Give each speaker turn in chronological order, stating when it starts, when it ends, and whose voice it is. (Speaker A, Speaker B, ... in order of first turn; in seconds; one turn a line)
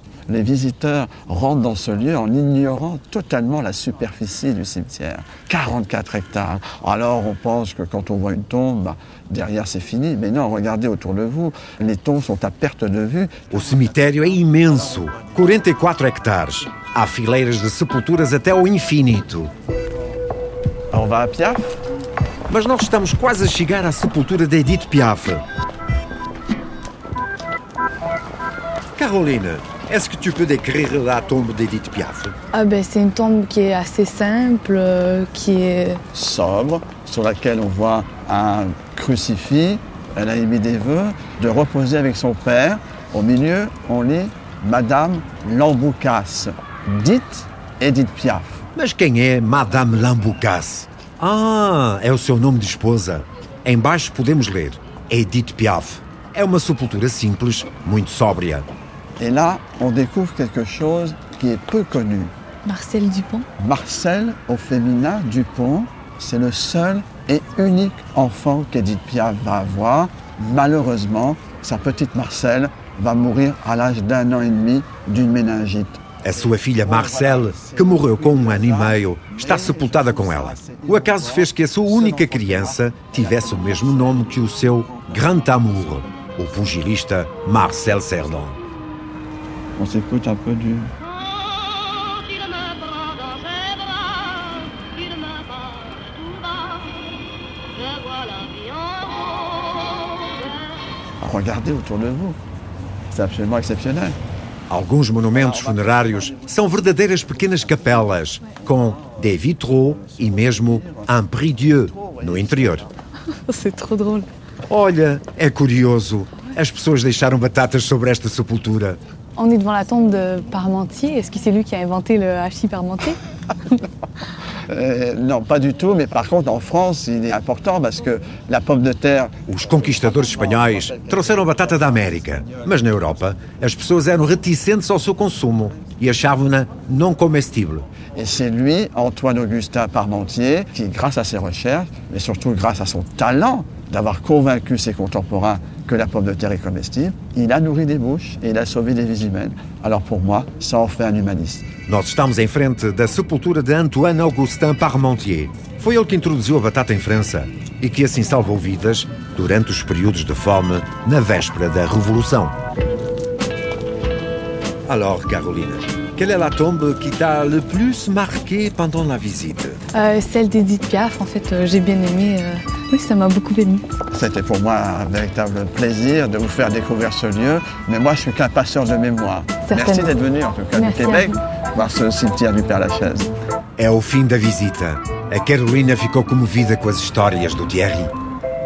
Speaker A: 0.3-13.5
Speaker B: 13.5-19.5
Speaker A: 20.9-21.8
Speaker B: 22.5-25.4
Speaker B: 29.0-32.3
Speaker C: 32.5-36.0
Speaker A: 36.1-48.6
Speaker B: 48.8-58.7
Speaker A: 59.2-62.3
Speaker C: 62.6-63.5
Speaker A: 63.6-85.6
Speaker B: 76.2-88.6
Speaker A: 89.8-90.9
Speaker A: 101.2-102.4
Speaker A: 103.1-104.2
Speaker B: 104.7-112.9
Speaker A: 110.1-111.2
Speaker A: 111.7-112.9
Speaker C: 113.5-114.3
Speaker B: 114.7-119.0
Speaker C: 119.4-123.2
Speaker A: 124.7-129.3
Speaker B: 129.5-137.8
Speaker A: 129.9-132.8
Speaker A: 138.1-151.7
Speaker B: 151.9-162.5
Speaker B: 164.9-169.8
Speaker C: 169.9-173.8
Speaker A: 174.1-183.3
Speaker C: 179.7-180.1
Speaker C: 180.7-181.4
Speaker B: 183.8-188.1